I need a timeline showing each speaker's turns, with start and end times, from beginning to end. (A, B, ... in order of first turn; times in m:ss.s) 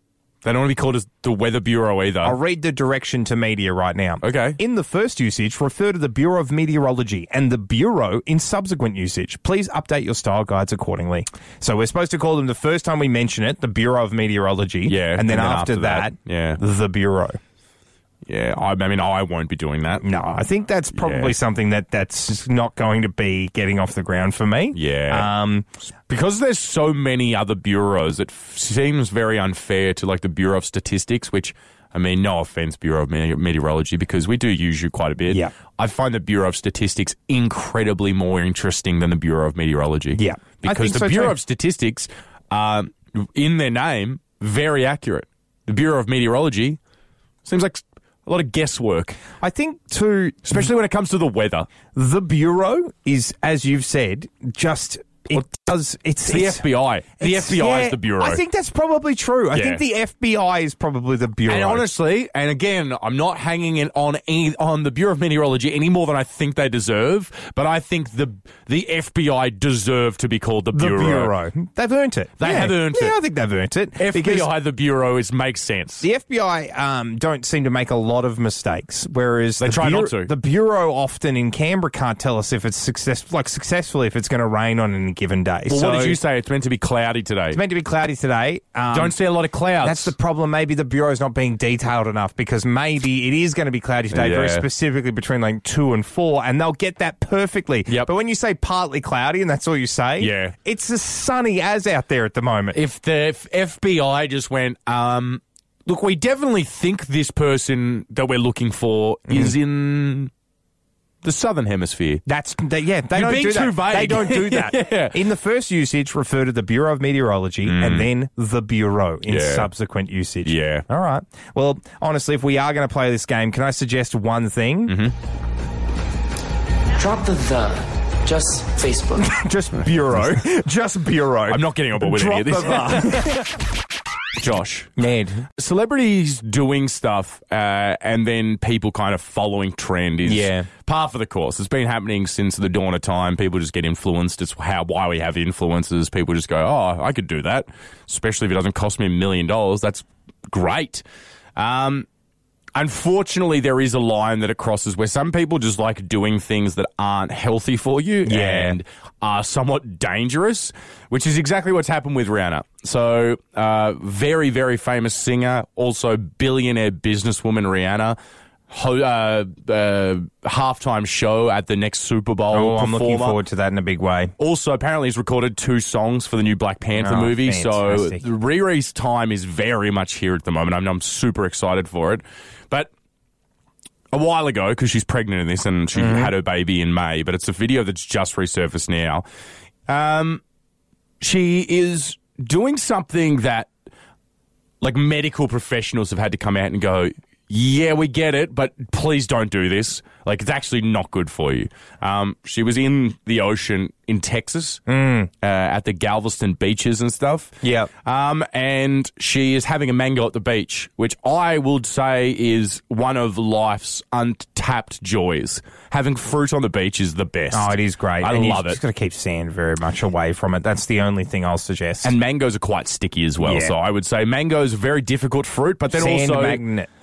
0:00.4-0:02.4 A
0:02.2-0:17.4 B
0:04.2-0:04.6 A
0:14.8-0:16.6 A
0:18.2-0:20.0 A
0:20.0-0:25.7 B
0:20.9-0:21.3 A
0:24.7-0:25.3 A
0:26.1-0:46.8 A
0:40.1-0:41.4 B
0:47.4-0:49.2 A
0:49.4-0:50.6 B
0:50.4-0:51.7 A
0:51.9-0:56.6 B
0:56.2-0:58.4 A
0:57.2-1:01.8 B
0:59.5-0:59.8 A
1:01.5-1:11.3 A
1:10.7-1:14.5 B
1:12.4-1:13.2 A
1:14.0-1:16.0 A
1:16.0-1:26.2 B
1:19.6-1:20.3 A
1:25.7-1:27.6 A
1:27.5-1:29.2 B
1:28.9-1:30.1 A
1:29.8-1:42.8 B
1:34.1-1:34.6 A
1:40.2-1:40.5 A
1:42.7-1:50.3 A
1:49.3-1:49.5 B
1:51.2-1:52.2 A
1:52.2-2:05.0 B
1:53.1-1:55.2 A
1:57.6-1:58.1 A
1:59.3-1:59.7 A
2:00.4-2:00.8 A
2:04.9-2:05.1 A
2:07.0-2:09.4 C
2:09.2-2:13.5 B
2:11.5-2:13.4 A
2:14.4-2:15.0 A
2:15.0-2:15.4 B
2:15.5-2:31.0 A
2:20.2-2:20.7 B
2:31.6-2:32.1 A
2:32.7-2:48.2 A
2:38.2-2:38.8 B
2:48.7-2:53.4 A
2:52.5-2:54.3 B
2:54.4-3:02.9 A
2:57.0-2:58.2 B
3:04.1-3:09.2 A
3:06.0-3:06.3 B
3:09.9-3:10.4 A
3:11.2-3:13.7 A
3:14.8-3:24.8 A
3:24.9-3:25.3 B
3:25.4-3:38.8 A
3:27.6-3:27.9 B
3:37.5-3:42.1 B
3:42.0-3:46.6 A
3:43.4-3:43.7 B
3:45.9-3:46.9 B